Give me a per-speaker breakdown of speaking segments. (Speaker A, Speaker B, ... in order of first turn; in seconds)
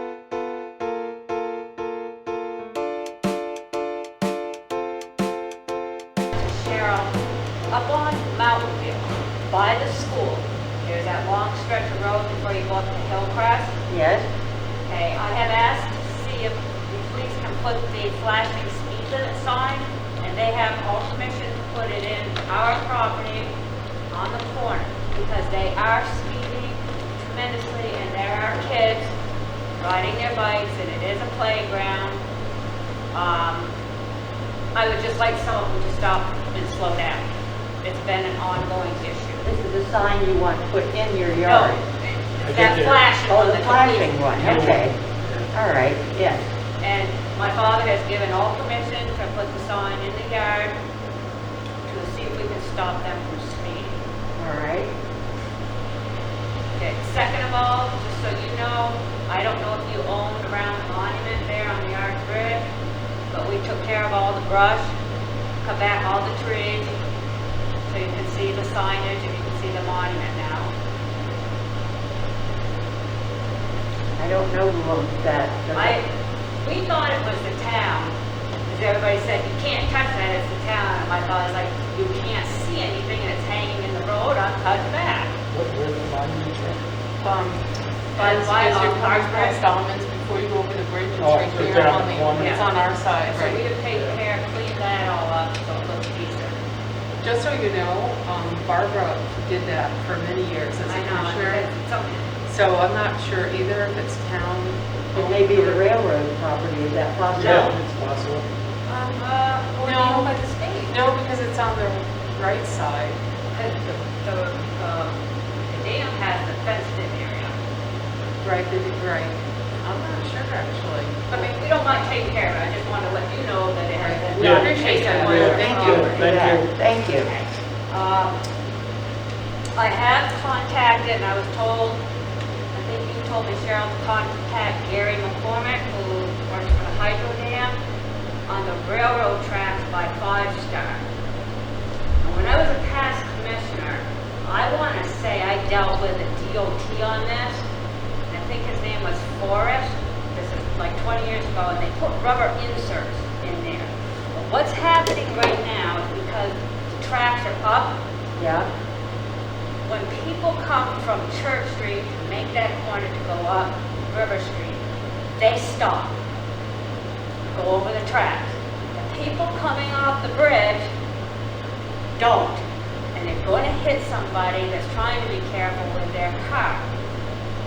Speaker A: 6.3-7.1, 7.7-13.7, 14.9-23.6, 24.1-29.1, 29.8-32.2, 33.1-33.7, 34.8-37.3, 37.8-39.4, 41.5-41.8, 42.4-44.7, 46.8-50.8, 51.9-54.0, 56.8-62.7, 63.3-64.9, 65.6-67.0, 67.9-70.7, 75.7-76.1, 76.6-78.2, 78.7-85.3, 88.2-89.6, 92.3-96.6, 100.9-102.3, 108.9-111.0, 113.5-117.5, 121.3-126.3, 127.1-128.4, 129.8-132.0, 132.7-137.8, 138.5-141.1, 142.2-147.7, 148.3-158.0, 159.8-164.8, 165.4-166.2, 167.5-170.9, 172.2-172.6, 173.2-176.9
Speaker B: 13.9-14.3, 39.4-41.8, 43.3-45.0, 45.5-46.5, 54.4-54.9, 74.2-76.0, 105.1-107.8, 125.1-127.3, 158.4-158.7
Speaker C: 42.4-43.0, 44.4-45.5, 85.5-86.8, 91.2-92.6, 93.9-94.2, 107.3-108.5, 124.3-126.7
Speaker D: 87.2-93.7, 97.2-101.7, 102.5-105.8, 109.8-110.3, 110.9-113.2, 118.4-121.5, 124.0-126.2